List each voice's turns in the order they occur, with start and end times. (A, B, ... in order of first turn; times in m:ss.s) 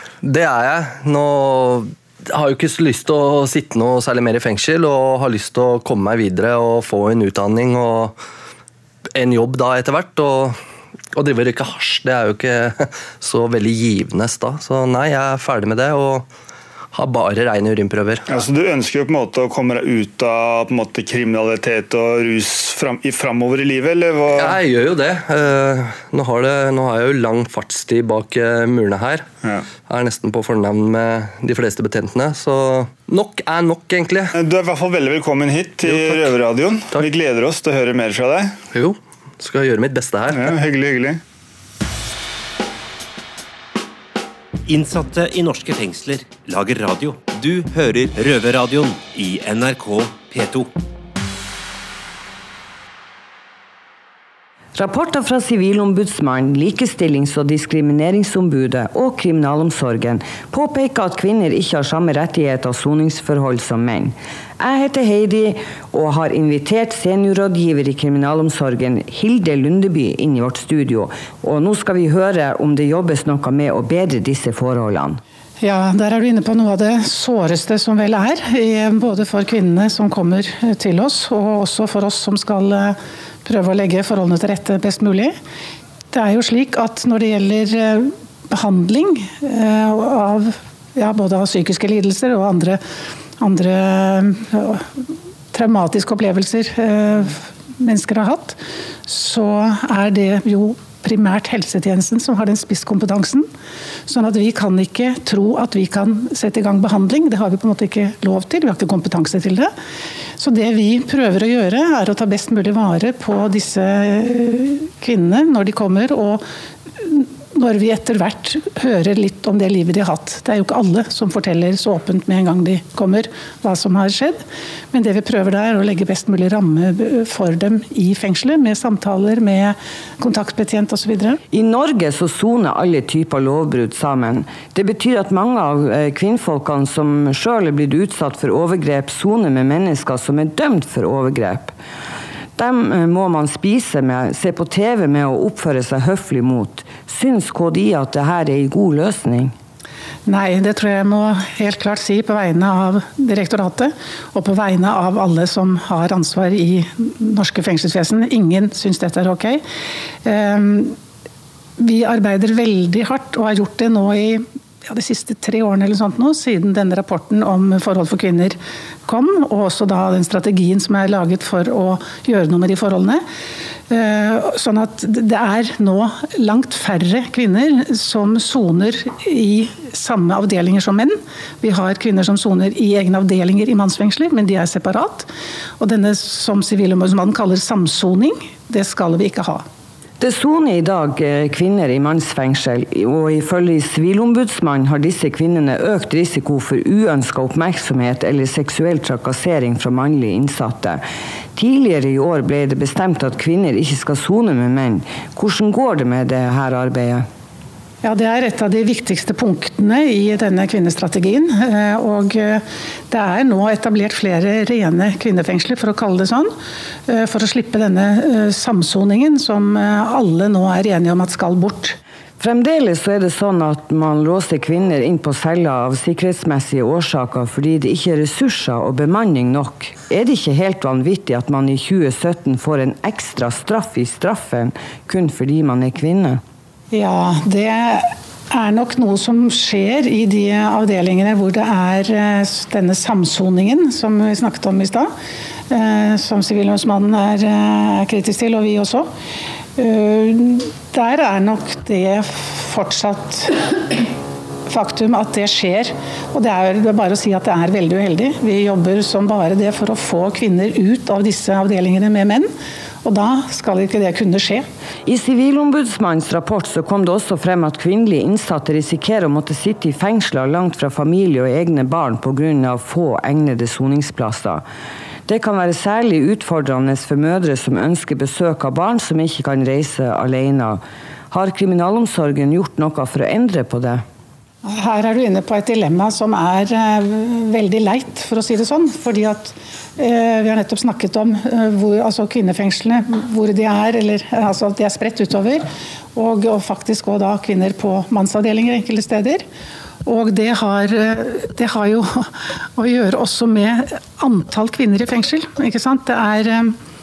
0:00.2-0:08.2 A
0:09.2-0:10.6 A
0:11.2-0:16.3 A
0:16.9-0:18.2 A
0:18.3-0:24.6 B
0:24.3-0:29.3 A
0:29.8-0:34.3 A
0:34.3-0:38.6 B
0:35.8-0:36.3 A
0:38.7-0:40.5 A
0:40.3-0:41.2 B
0:44.7-0:50.7 C
0:54.8-1:15.2 D
1:15.6-1:25.4 E
1:26.1-1:32.8 E
1:33.4-1:34.9 E
1:35.5-1:43.5 E
1:44.1-1:49.7 E
1:50.4-1:56.4 E
1:57.0-2:11.4 E
2:11.5-2:21.7 D
2:22.6-2:29.6 D
2:30.3-2:39.6 E
2:40.2-2:41.0 E
2:41.8-2:53.2 E
2:53.9-3:05.3 E
3:05.8-3:09.6 E
3:10.2-3:21.0 D
3:21.6-3:27.3 D
3:28.0-3:36.5 E
3:37.1-3:42.0 E
3:42.4-3:56.4 D
3:56.9-4:05.1 E
4:05.7-4:09.1 E
4:09.8-4:13.6 E
4:14.7-4:22.5 E
4:23.0-4:24.7 E
4:25.1-4:34.6 D
4:35.3-4:44.0 D
4:44.6-4:59.4 E
5:00.0-5:06.8 E